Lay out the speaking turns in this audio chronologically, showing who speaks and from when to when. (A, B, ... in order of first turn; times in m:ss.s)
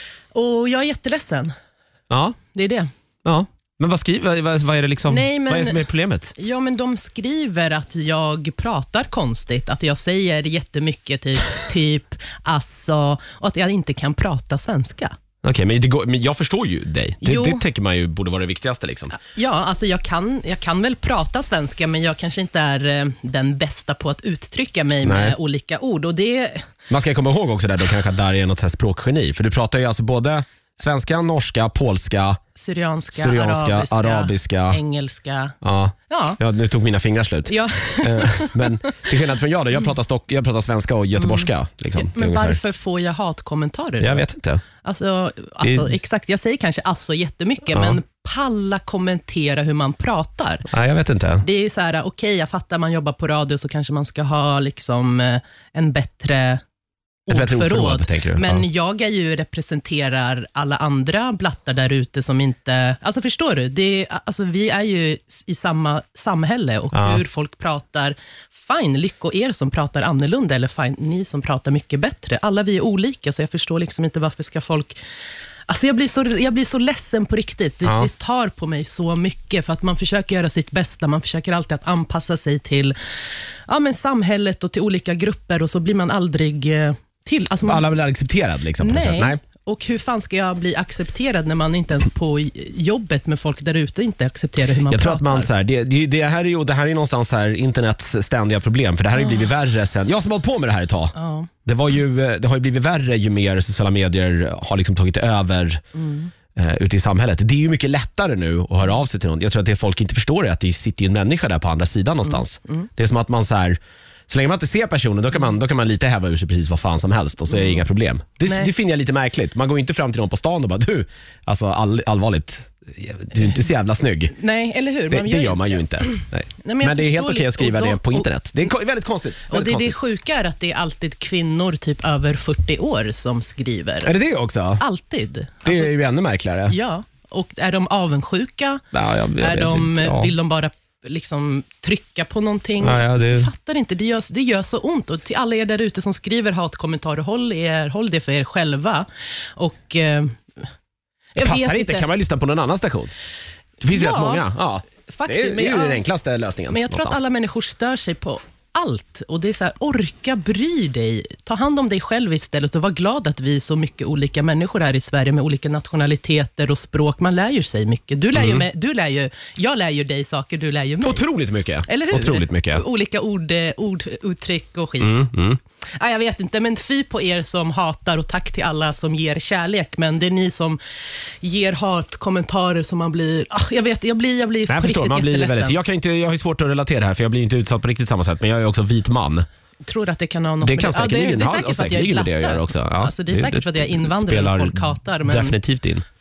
0:00.3-0:01.5 A
0:02.1-0:02.4 B
0:02.5-0:02.9 A
0:03.2-0:06.3 B
0:05.0-0:15.1 A
0:15.4-0:19.2 B
0:17.2-0:17.6 A
0:19.2-0:26.6 A
0:25.0-0:25.4 B
0:26.9-0:32.4 B
0:32.5-0:35.5 A
0:33.1-0:34.8 B
0:35.6-0:42.6 B
0:36.1-0:36.4 A
0:37.5-0:39.1 A
0:41.2-0:44.2 A
0:44.0-0:44.6 B
0:44.8-0:50.7 A
0:45.6-0:46.0 B
0:47.7-0:48.0 B
0:50.7-0:51.4 B
0:51.4-0:56.6 A
0:57.3-1:15.0 A
0:57.3-0:58.6 B
1:06.9-1:07.2 B
1:15.7-1:23.0 A
1:23.7-1:27.9 A
1:27.6-1:29.4 B
1:28.8-1:35.5 A
1:34.9-1:41.1 B
1:39.1-1:39.5 A
1:41.1-1:41.5 A
1:41.6-1:45.8 B
1:45.9-1:46.3 A
1:46.5-2:04.4 B
1:52.2-1:52.9 A
1:57.5-1:57.8 A
1:58.4-1:58.7 A
2:04.3-2:08.3 A
2:05.1-2:10.0 B
2:09.5-2:14.1 A
2:14.0-2:14.8 B
2:14.8-2:15.9 A
2:15.6-2:16.8 B
2:16.7-2:18.8 A
2:18.9-2:20.3 B
2:19.4-2:30.4 A
2:22.8-2:23.5 B
2:31.4-2:32.1 A
2:31.4-2:33.1 B
2:33.8-2:37.2 B
2:33.9-2:34.4 A
2:35.1-2:36.0 A
2:36.7-2:51.2 A
2:48.3-2:48.6 B
2:51.0-2:52.8 B
2:51.8-2:55.3 A
2:55.0-2:55.6 B
2:56.0-3:05.8 A
3:04.7-3:09.4 B
3:09.8-3:15.6 A
3:10.6-3:16.0 B